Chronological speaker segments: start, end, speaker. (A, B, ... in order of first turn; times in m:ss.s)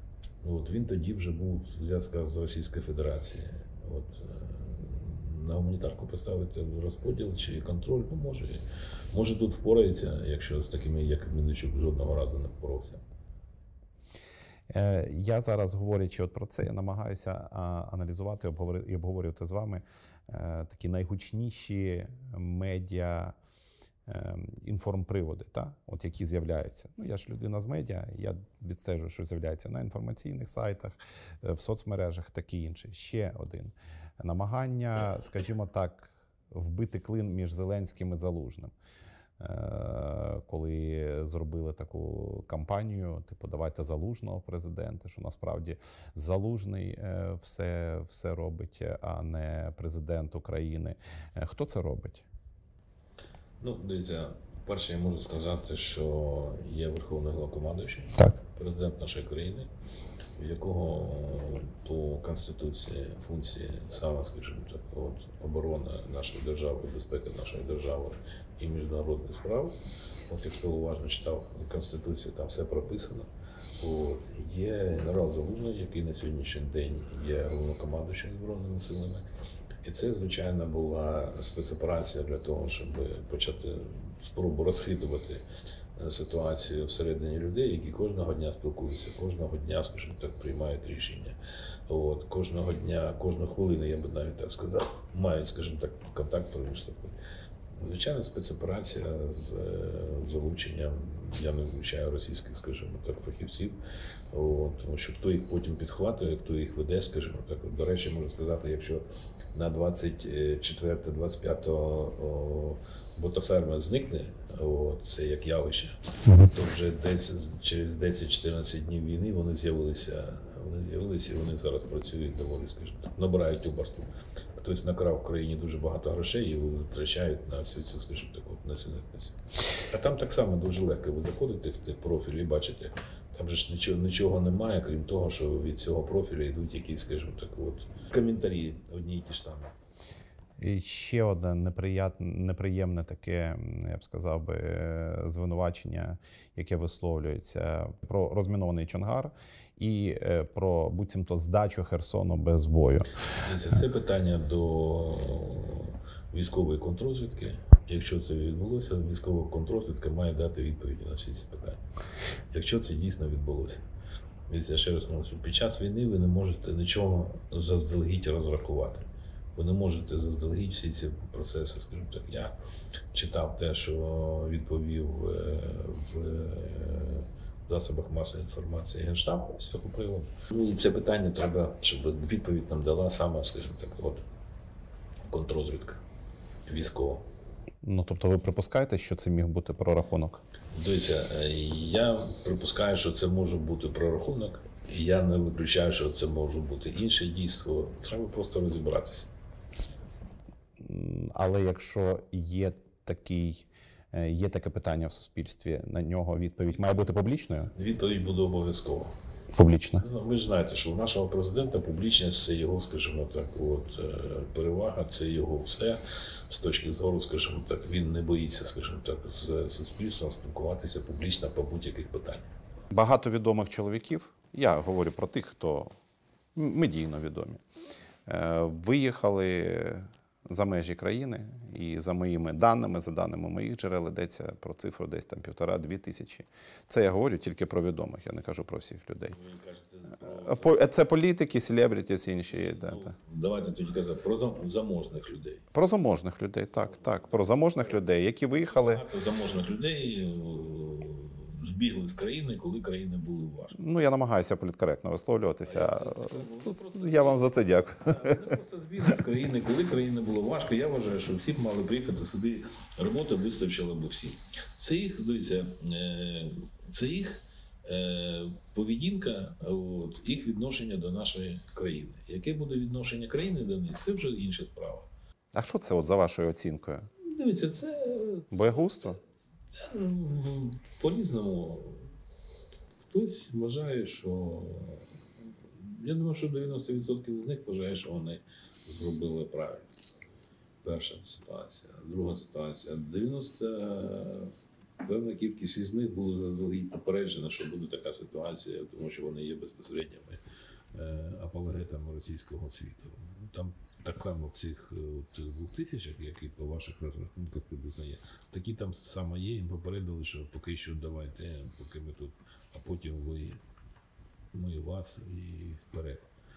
0:00.4-0:13.0 A
0:14.7-0:23.4 B
0:24.0-0:38.7 B
0:39.4-0:52.2 B
0:53.6-0:59.7 A
1:00.4-1:19.3 A
1:19.8-1:25.4 A
1:26.0-1:31.4 A
1:31.9-1:37.2 A
1:37.8-1:43.8 A
1:44.3-2:19.8 A
2:20.6-2:33.2 B
2:33.3-2:41.8 A
2:42.5-2:43.8 A
2:44.5-2:52.6 A
2:53.1-3:04.2 A
3:05.3-3:06.0 A
3:06.6-3:07.3 A
3:07.8-3:10.4 B
3:10.7-3:19.3 A
3:20.8-3:27.7 B
3:27.7-3:29.2 A
3:29.5-3:30.0 B
3:30.0-3:42.5 A
3:42.9-3:45.9 B
3:46.5-3:47.6 B
3:48.2-3:59.4 B
3:59.3-4:00.9 A
4:00.2-4:03.1 B
4:02.5-4:05.6 A
4:05.7-4:09.0 B
4:06.8-4:08.0 A
4:08.6-4:13.8 A
4:13.8-4:18.5 B
4:15.6-4:35.1 A
4:35.5-4:37.1 B
4:37.2-4:39.1 A
4:38.5-4:39.2 B
4:39.7-4:42.1 A
4:43.0-4:45.1 A
4:45.7-4:49.9 A
4:50.8-5:00.4 A
5:00.9-5:13.6 A
5:14.5-5:16.3 A